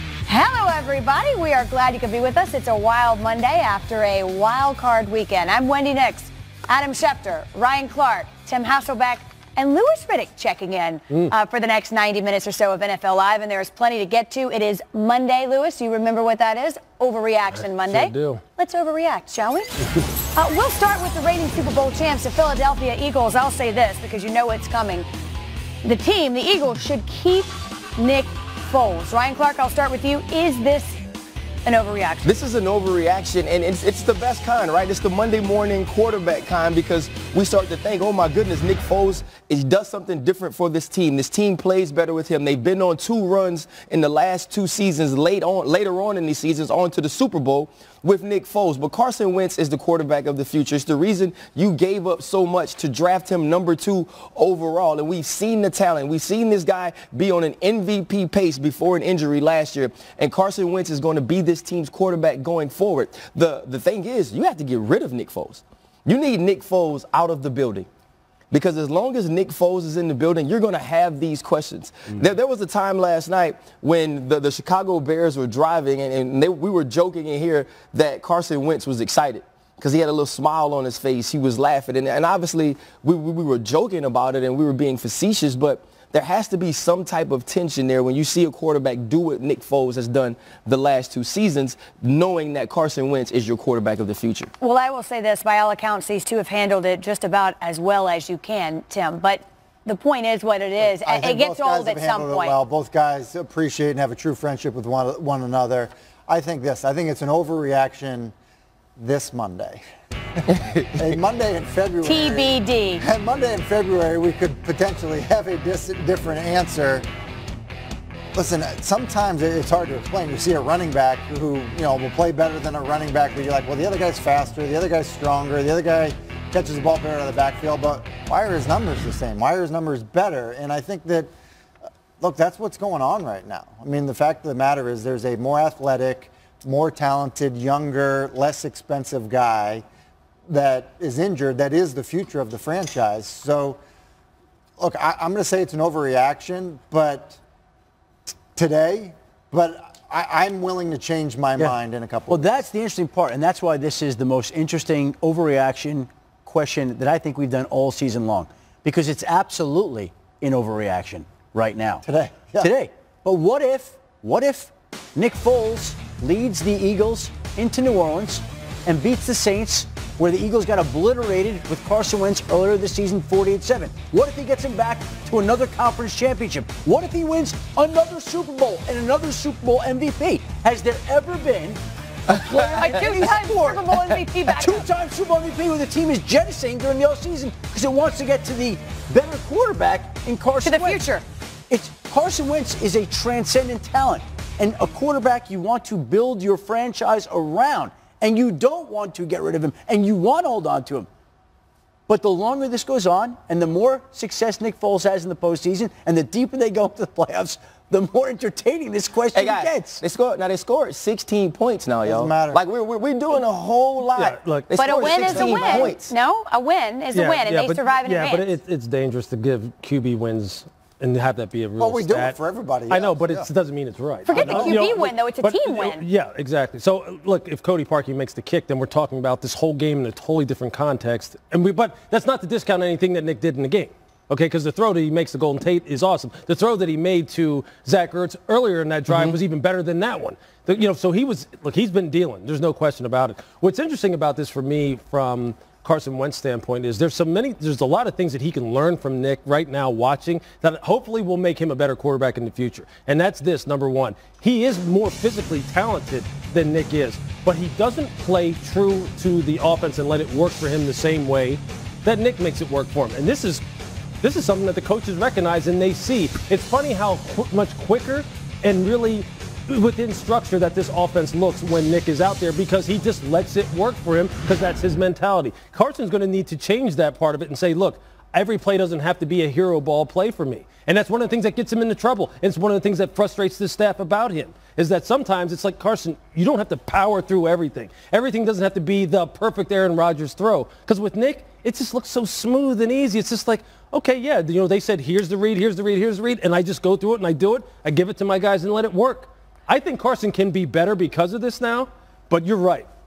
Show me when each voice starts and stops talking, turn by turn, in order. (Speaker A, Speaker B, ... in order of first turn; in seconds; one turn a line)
Speaker A: 0.3-19.8
Speaker B: 17.5-18.4
Speaker A: 20.3-25.1
Speaker A: 25.8-31.0
Speaker A: 31.6-32.3
Speaker C: 32.2-67.9
Speaker C: 68.5-94.5
Speaker A: 94.6-102.6
Speaker D: 101.0-108.3
Speaker D: 109.0-109.8
Speaker C: 110.5-111.1
Speaker D: 110.9-117.1
Speaker A: 112.0-113.0
Speaker D: 118.3-131.3
Speaker D: 132.2-139.8
Speaker D: 140.5-143.8
Speaker D: 144.8-147.4
Speaker D: 148.5-152.5
Speaker E: 152.3-162.0
Speaker D: 162.0-162.7
Speaker E: 162.6-181.8
Speaker A: 182.4-184.9
Speaker E: 182.5-191.0
Speaker A: 190.6-191.2
Speaker E: 191.7-201.1
Speaker E: 202.1-210.0
Speaker C: 209.3-216.1
Speaker D: 212.1-212.6
Speaker B: 214.2-215.6
Speaker A: 214.8-218.5
Speaker B: 217.1-222.4
Speaker D: 221.8-223.5
Speaker B: 222.9-263.6
Speaker A: 224.3-226.0
Speaker D: 224.3-224.9
Speaker C: 239.1-239.4
Speaker B: 264.2-302.9